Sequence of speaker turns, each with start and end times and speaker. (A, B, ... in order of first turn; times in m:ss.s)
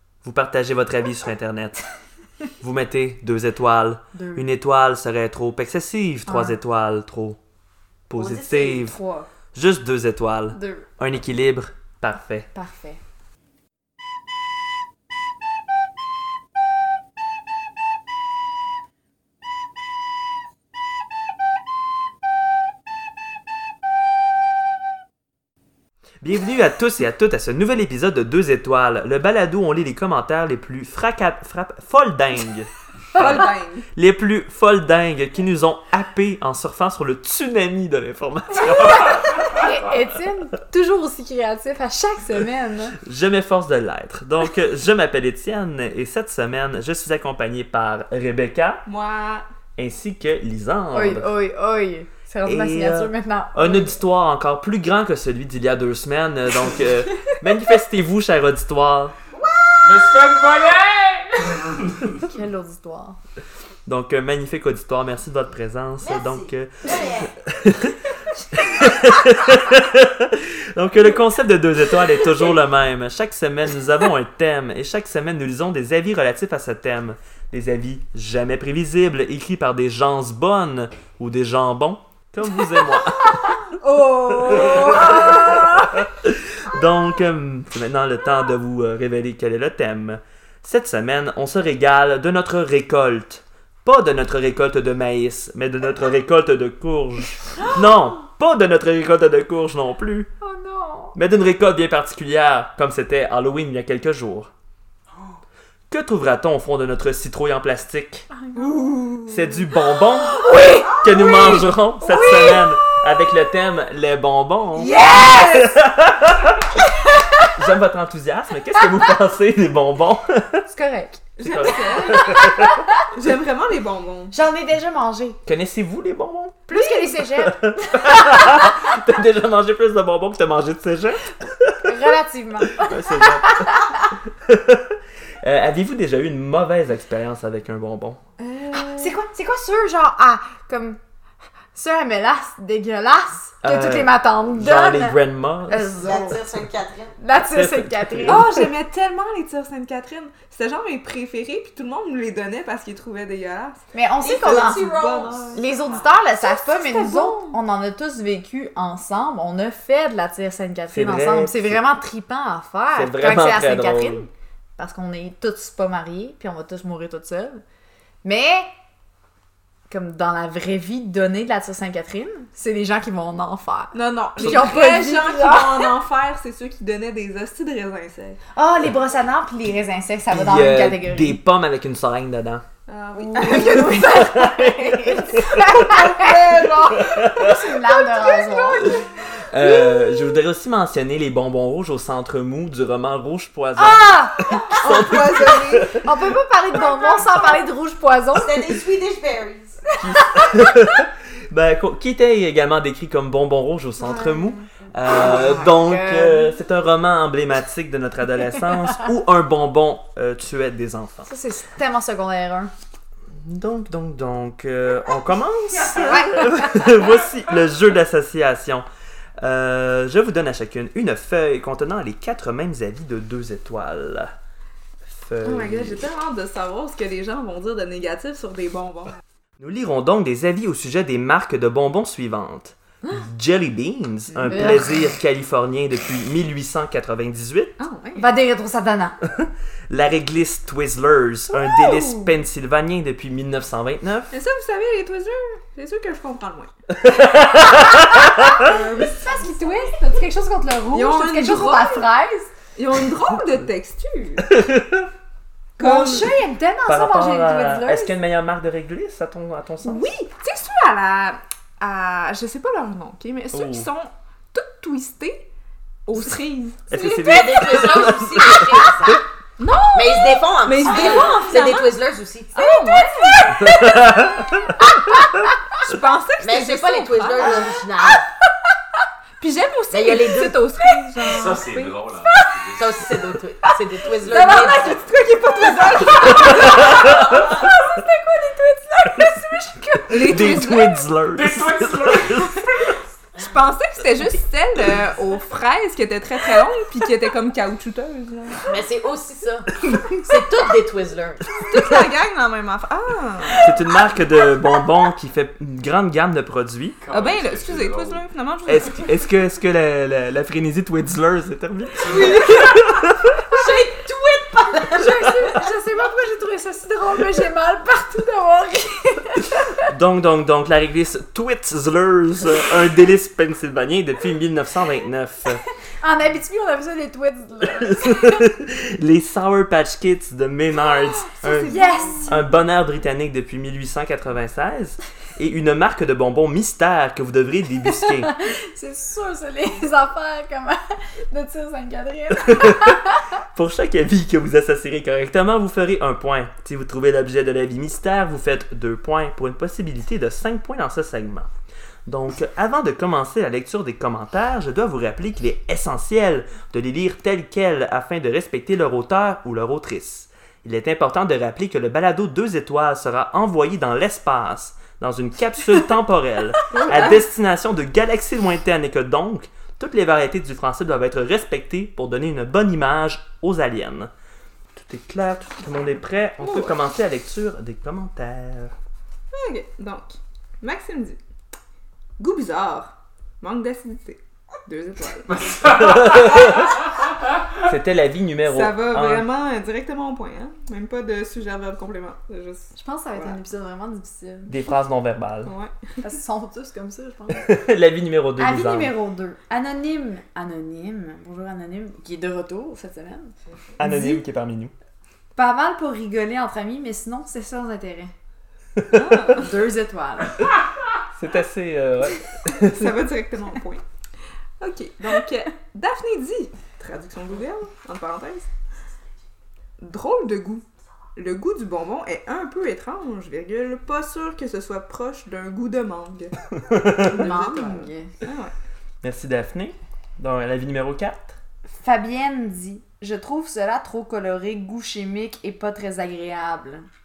0:00.2-0:01.8 A
0:02.6-0:07.4 A
0:04.1-0:04.5 B
0:06.2-0:06.6 B
0:08.1-0:09.0 A
0:08.2-0:09.3 B
0:09.5-0:12.5 A
0:10.5-0:10.8 B
0:12.5-0:13.0 B
0:26.2-0:39.6 A
0:33.2-0:33.9 C
0:38.6-0:43.0 B
0:43.0-0:48.8 A
0:48.8-0:49.4 C
0:49.8-0:51.3 A
0:50.9-0:54.0 B
0:52.4-0:59.1 A
0:59.3-1:00.6 D
0:59.9-1:01.7 E
1:02.2-1:03.2 B
1:03.8-1:08.0 A
1:06.0-1:07.3 D
1:08.5-1:23.6 A
1:23.8-1:25.9 C
1:24.3-1:25.4 A
1:24.6-1:25.7 B
1:25.9-1:40.3 A
1:40.4-1:41.2 B
1:41.1-1:44.5 A
1:45.9-1:48.3 A
1:48.3-1:49.0 B
1:48.5-1:49.6 C
1:49.3-1:50.4 A
1:50.0-1:53.3 B
1:50.9-1:56.8 A
1:54.8-1:55.8 B
1:57.0-1:57.5 B
1:57.5-2:00.6 A
2:00.7-2:01.2 B
2:01.4-2:02.5 C
2:01.4-2:02.8 A
2:01.7-2:03.0 B
2:03.1-2:04.4 C
2:04.3-2:05.4 B
2:05.4-2:11.8 A
2:06.7-2:08.8 B
2:11.8-2:14.1 B
2:12.7-2:18.2 A
2:18.4-2:19.2 C
2:18.8-2:21.0 B
2:21.7-2:26.4 B
2:23.6-2:26.0 A
2:26.0-2:27.1 D
2:27.2-2:28.7 B
2:27.4-2:28.6 A
2:28.2-2:33.8 C
2:33.9-2:34.9 B
2:34.2-2:36.0 D
2:34.4-2:35.6 C
2:35.5-2:47.6 B
2:36.4-2:37.6 C
2:40.9-2:41.8 A
2:42.9-2:44.3 A
2:48.2-2:48.7 B
2:49.9-2:55.9 B
2:53.9-2:58.4 C
2:58.5-3:01.4 B
3:00.3-3:02.6 A
3:02.9-3:04.1 C
3:03.2-3:09.1 B
3:03.6-3:06.1 A
3:05.8-3:07.2 C
3:06.8-3:07.8 A
3:08.3-3:08.9 C
3:08.8-3:16.1 A
3:09.6-3:10.3 B
3:13.8-3:18.8 B
3:14.8-3:16.1 C
3:16.8-3:17.6 C
3:18.3-3:19.8 D
3:20.0-3:31.3 A
3:20.2-3:20.6 B
3:24.1-3:24.4 B
3:25.2-3:26.6 B
3:25.4-3:25.6 C
3:31.3-3:32.7 B
3:33.4-3:38.8 A
3:35.9-3:36.9 B
3:36.0-3:36.5 C
3:39.4-3:44.3 A
3:45.0-3:46.0 A
3:45.4-3:49.2 C
3:49.6-3:57.8 A
3:54.3-3:54.8 C
3:54.5-3:55.0 B
3:57.8-3:58.3 C
3:58.2-3:59.2 B
3:59.3-4:04.3 A
4:01.7-4:02.3 C
4:04.3-4:06.7 C
4:06.9-4:08.6 A
4:08.5-4:12.5 B
4:08.6-4:09.9 C
4:10.9-4:12.1 C
4:12.8-4:14.5 C
4:14.4-4:15.1 A
4:15.8-4:16.4 C
4:15.8-4:18.1 B
4:16.9-4:20.1 A
4:19.8-4:25.5 C
4:23.5-4:23.9 A
4:26.1-4:27.7 C
4:26.9-4:28.9 A
4:27.0-4:29.2 D
4:29.6-4:31.9 C
4:29.9-4:32.7 D
4:30.8-4:31.4 B
4:32.5-4:33.6 C
4:32.8-4:34.0 B
4:33.5-4:35.2 A
4:35.1-4:35.5 B
4:35.8-4:37.8 C
4:36.4-4:38.3 D
4:39.4-4:42.3 C
4:39.9-4:40.8 D
4:41.3-4:42.7 E
4:42.6-4:45.0 D
4:43.7-4:44.8 B
4:44.3-4:47.2 C
4:45.4-4:50.4 B
4:46.5-4:47.5 A
4:50.1-4:51.0 C
4:50.1-4:52.9 A
4:51.4-4:52.4 E
4:53.4-4:58.8 C
4:58.6-5:01.7 D
5:01.7-5:03.7 C
5:03.6-5:07.0 A
5:07.1-5:09.2 C
5:07.1-5:08.2 E
5:08.7-5:13.4 A
5:12.0-5:12.8 C
5:13.5-5:15.5 D
5:14.8-5:19.8 B
5:19.8-5:25.6 A
5:26.0-5:28.5 B
5:27.7-5:31.7 A
5:31.2-5:32.4 C
5:31.7-5:32.4 B
5:32.2-5:38.3 A
5:38.0-5:43.2 B
5:42.3-5:51.5 A
5:52.1-6:14.1 A
6:06.7-6:07.2 C
6:14.7-6:18.7 A
6:16.4-6:16.8 C
6:19.3-6:21.2 C
6:22.2-6:25.6 C
6:25.6-6:26.8 A
6:27.5-6:29.3 A
6:28.4-6:33.4 C
6:32.8-6:34.5 B
6:34.5-6:35.5 A
6:35.4-6:35.9 C
6:36.0-6:37.5 B
6:37.3-6:38.9 A
6:38.4-6:44.2 B
6:43.8-6:44.7 A
6:45.4-6:48.1 B
6:48.9-6:49.5 C
6:49.3-6:50.5 B
6:51.1-6:53.1 A
6:52.6-6:53.8 C
6:54.6-6:58.5 C
6:59.8-7:06.3 C
7:06.6-7:07.2 A
7:07.0-7:08.5 C
7:07.1-7:08.1 B
7:09.0-7:11.4 A
7:11.7-7:16.8 B